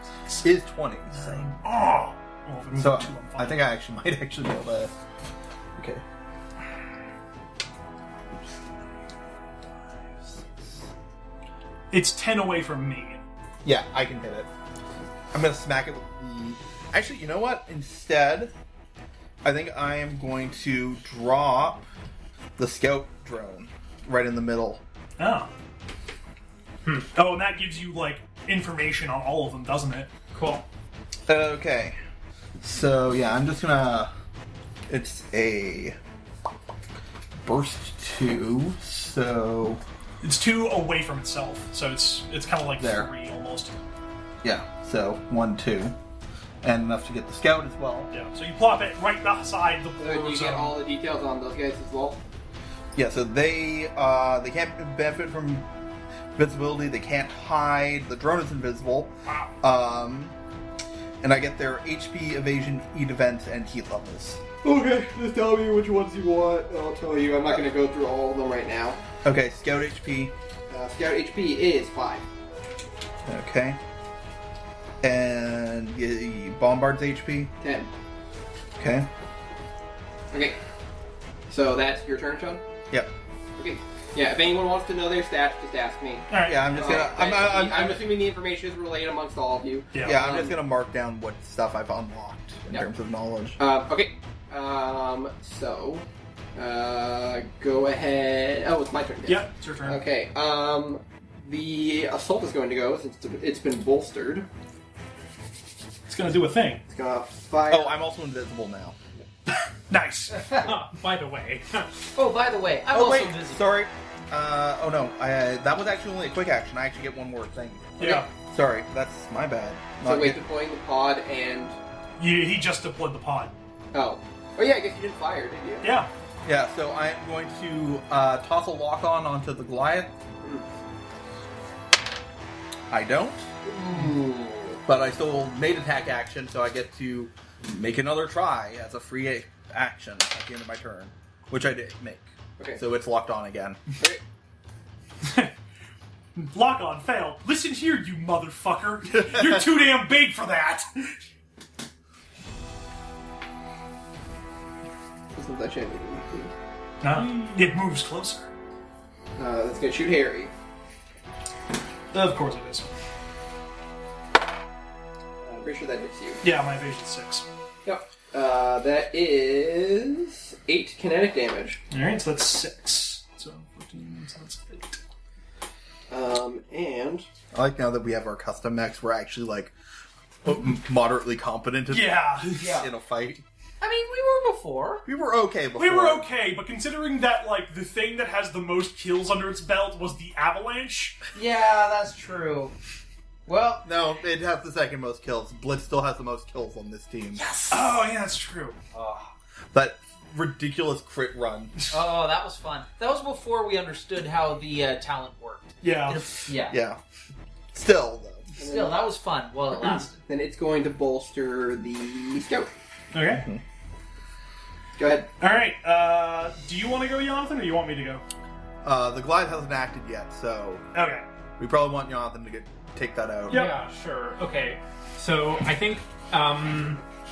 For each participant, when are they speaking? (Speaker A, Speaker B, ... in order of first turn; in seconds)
Speaker A: 0.4-1.5, 2.7-4.9, 5.7-6.0, 13.6-14.5, 15.3-18.5, 19.4-21.9, 22.6-24.8, 31.3-32.0, 32.6-34.1, 34.9-36.0, 37.4-39.8, 42.8-43.1, 44.4-46.0, 46.6-48.1, 52.9-55.7, 56.4-60.3, 61.2-64.4, 69.2-70.3, 73.2-73.8, 75.0-77.5, 78.8-79.1, 86.4-88.1, 90.0-93.6, 107.7-109.0, 112.9-120.4, 126.4-130.1, 132.9-133.4, 134.8-143.8, 149.2-149.6, 177.5-179.7, 180.4-183.4, 185.0-186.2, 193.8-197.4, 199.7-201.7, 206.7-207.0, 207.7-208.5, 213.3-213.6, 218.8-220.8, 221.6-223.6
Speaker B: 1.1-3.6, 11.9-13.2, 25.2-25.5, 27.1-30.1, 40.2-43.8, 48.1-50.8, 86.3-87.0, 89.9-90.2, 99.2-100.0, 106.1-106.8, 109.9-110.4, 118.0-118.3, 122.2-123.5, 125.8-126.1, 145.2-145.5, 146.3-151.1, 157.0-158.5, 162.1-162.9, 166.4-167.4, 171.9-175.0, 181.9-182.7, 185.8-191.2, 197.7-198.8, 205.8-206.4, 213.1-213.4, 215.4-218.2, 220.9-221.2, 223.5-223.8
Speaker C: 26.8-27.1, 30.3-30.6, 110.5-112.1, 223.5-227.0
Speaker D: 50.0-52.2, 64.6-69.0, 70.7-72.2, 77.6-77.9, 80.3-80.6, 81.5-82.6, 83.6-90.6, 93.6-104.5, 106.9-107.9, 120.0-121.8, 123.9-125.9, 133.7-134.8, 155.3-156.5, 159.4-160.5, 165.4-166.4, 167.8-171.8, 176.1-177.3, 208.6-209.0, 210.2-212.7, 215.0-215.3
Speaker E: 110.3-110.7, 112.1-113.7, 182.5-182.9, 183.8-185.0, 191.3-192.7, 193.5-193.8, 197.4-197.8, 198.9-199.2, 201.9-206.8, 208.6-210.2